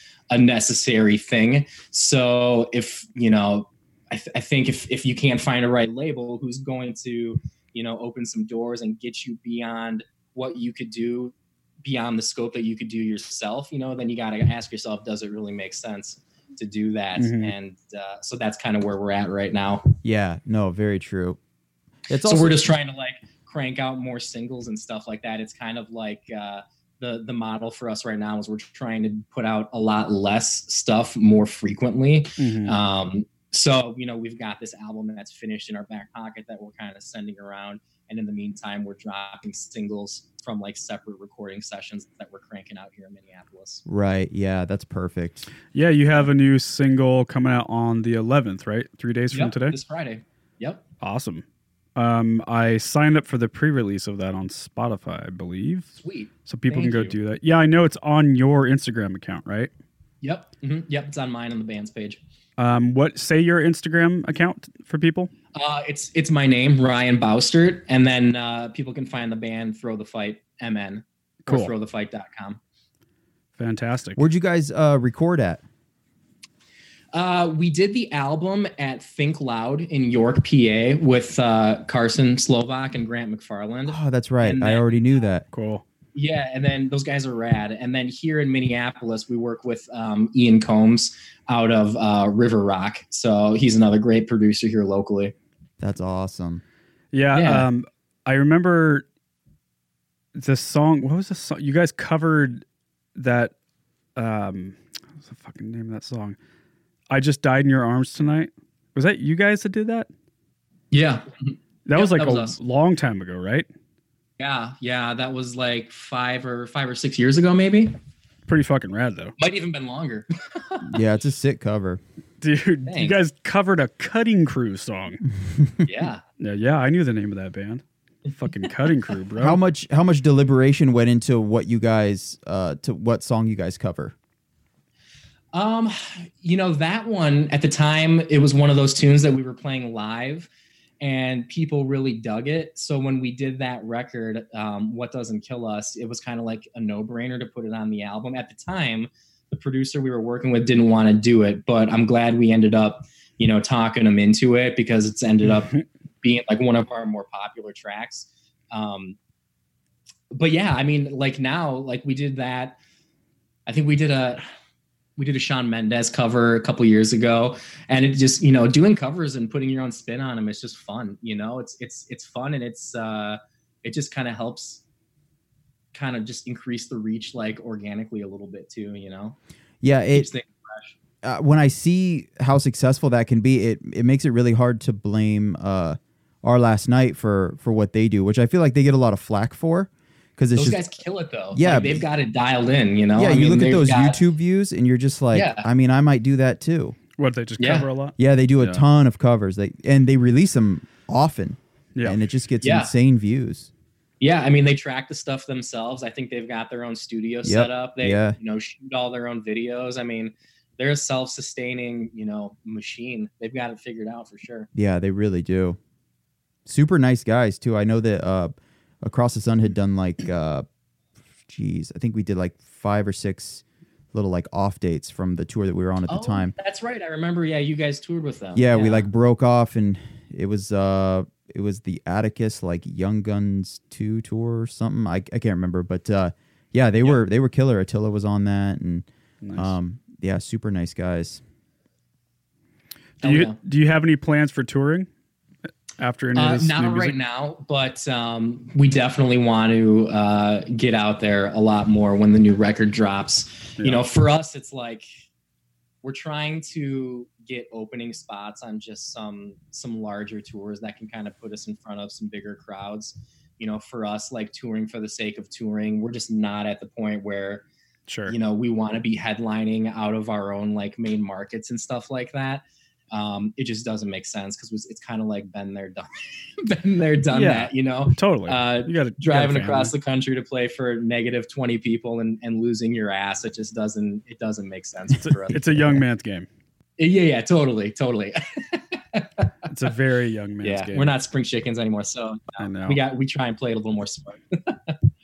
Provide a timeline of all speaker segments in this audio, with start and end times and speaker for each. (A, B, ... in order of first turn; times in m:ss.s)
0:00.3-0:19.9 A
0:17.2-0:17.5 B
0:20.0-0:21.4 C
0:22.1-0:22.7 C
0:22.2-0:43.8 A
0:32.4-0:32.8 B
0:43.8-0:45.5 C
0:45.7-0:49.8 B
0:49.3-0:50.8 A
0:51.0-0:51.4 B
0:52.0-0:55.9 B
0:56.0-0:57.1 A
0:56.4-0:59.7 B
1:00.2-1:02.2 A
1:02.6-1:05.3 B
1:05.5-1:12.6 A
1:11.4-1:11.7 B
1:13.6-1:14.2 B
1:14.2-1:15.6 C
1:17.1-1:24.9 A
1:23.8-1:25.4 C
1:25.5-1:25.8 B
1:26.1-1:35.3 A
1:35.8-1:36.6 C
1:37.1-1:39.0 B
1:37.3-1:37.6 A
1:40.4-1:42.6 B
1:43.2-1:43.5 B
1:44.2-1:46.4 B
1:47.1-1:50.1 B
1:50.9-1:52.6 A
1:51.8-1:53.7 B
1:54.4-1:57.9 A
1:58.5-1:59.3 B
1:59.4-2:00.8 A
2:00.8-2:02.0 C
2:02.4-2:05.2 B
2:02.8-2:03.2 A
2:05.5-2:05.8 C
2:05.8-2:06.2 A
2:06.4-2:07.8 B
2:08.3-2:09.6 B
2:09.4-2:14.1 C
2:15.5-2:39.2 A
2:35.4-2:35.8 B
2:40.3-2:42.8 A
2:43.7-2:44.4 A
2:45.2-2:54.8 A
2:55.9-2:59.4 A
2:59.8-3:00.3 C
3:00.1-3:00.9 A
3:01.2-3:10.9 C
3:10.5-3:14.2 A
3:11.5-3:12.0 C
3:13.2-3:17.0 C
3:15.3-3:15.6 A
3:17.2-3:18.8 B
3:17.6-3:17.9 A
3:18.2-3:23.7 C
3:22.6-3:22.9 A
3:24.2-3:34.7 A
3:27.4-3:28.4 C
3:34.7-3:35.8 C
3:36.6-3:40.6 C
3:41.5-3:46.5 C
3:46.1-3:49.1 A
3:48.5-4:01.4 C
3:59.4-3:59.7 B
4:03.2-4:05.1 B
4:03.2-4:03.6 A
4:06.0-4:07.2 B
4:06.3-4:15.0 A
4:13.8-4:14.1 B
4:16.0-4:27.6 A
4:28.1-4:28.3 B
4:28.3-4:36.1 A
4:36.6-4:45.6 A
4:37.3-4:39.9 B
4:45.2-4:46.5 B
4:47.0-4:49.5 A
4:49.7-4:51.2 B
4:50.6-4:55.0 A
4:52.6-4:53.0 B